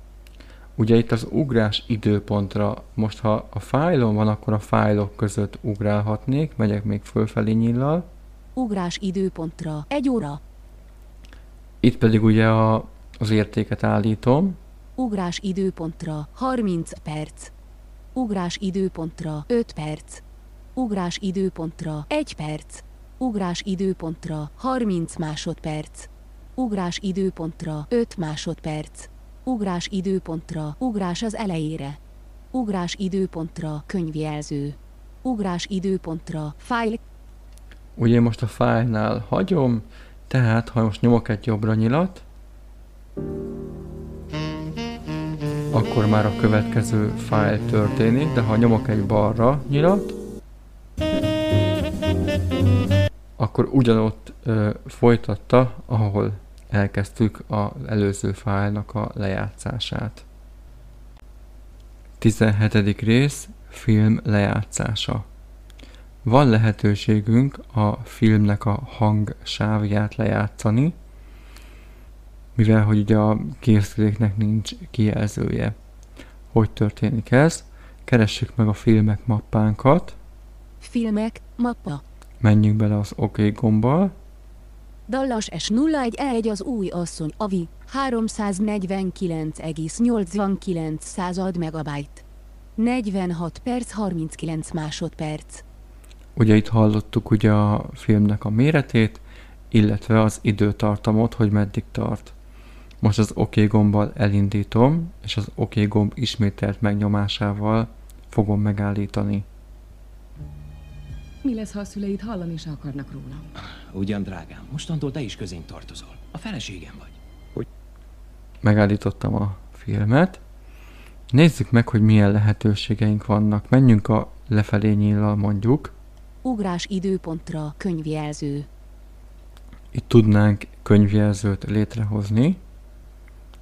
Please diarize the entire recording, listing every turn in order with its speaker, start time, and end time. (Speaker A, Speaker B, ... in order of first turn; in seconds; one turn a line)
Speaker A: 0.8-8.1
Speaker B: 8.6-10.4
Speaker A: 11.8-14.6
Speaker B: 15.0-17.5
Speaker B: 18.1-20.2
Speaker B: 20.8-32.0
Speaker B: 32.5-37.0
Speaker A: 38.0-42.2
Speaker A: 45.7-50.2
Speaker A: 53.4-60.2
Speaker A: 62.2-65.2
Speaker A: 66.2-71.0
Speaker A: 72.5-75.8
Speaker A: 76.5-80.2
Speaker B: 80.8-82.0
Speaker A: 82.4-84.1
Speaker B: 85.1-92.2
Speaker B: 92.8-95.6
Speaker A: 96.3-102.3
Speaker A: 103.0-109.5
Speaker C: 111.4-113.5
Speaker D: 113.9-117.2
Speaker A: 118.6-120.4
Speaker A: 121.3-125.9
Speaker B: 126.4-128.7
Speaker A: 129.9-132.6